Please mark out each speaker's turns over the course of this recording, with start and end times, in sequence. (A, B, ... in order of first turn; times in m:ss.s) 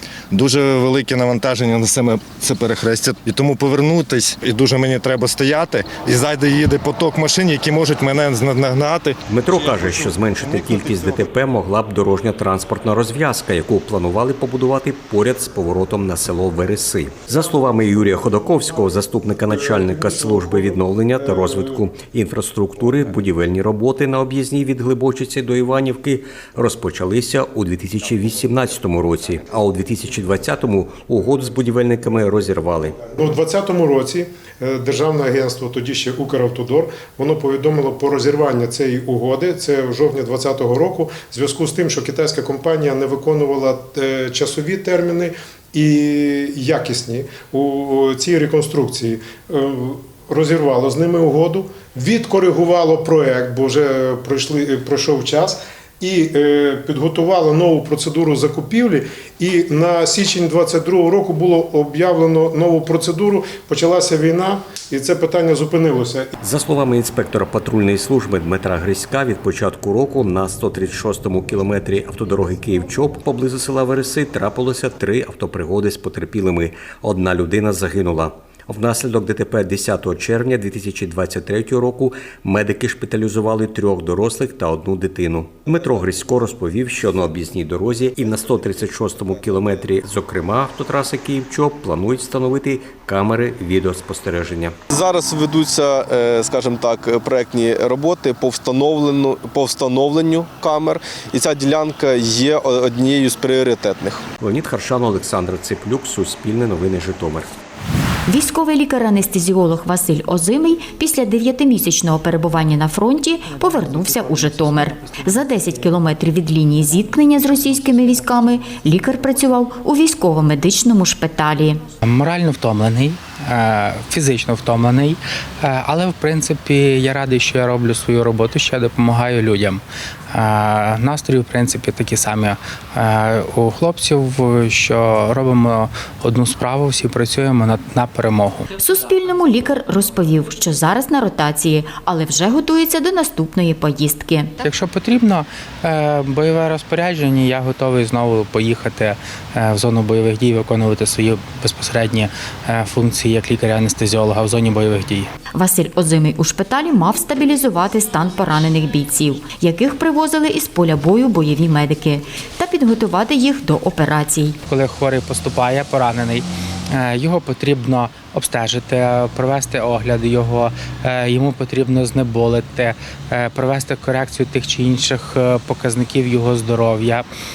0:00.3-0:09.2 A
0:09.3-0:33.1 B
0:33.2-1:06.3 C
1:06.4-1:34.8 B
1:34.9-1:44.2 D
1:44.4-1:47.5 B
1:48.3-2:01.8 E
2:02.0-2:18.8 F
2:18.8-2:24.5 E
2:24.6-2:35.3 F
2:35.5-2:44.6 E
2:44.6-2:57.2 F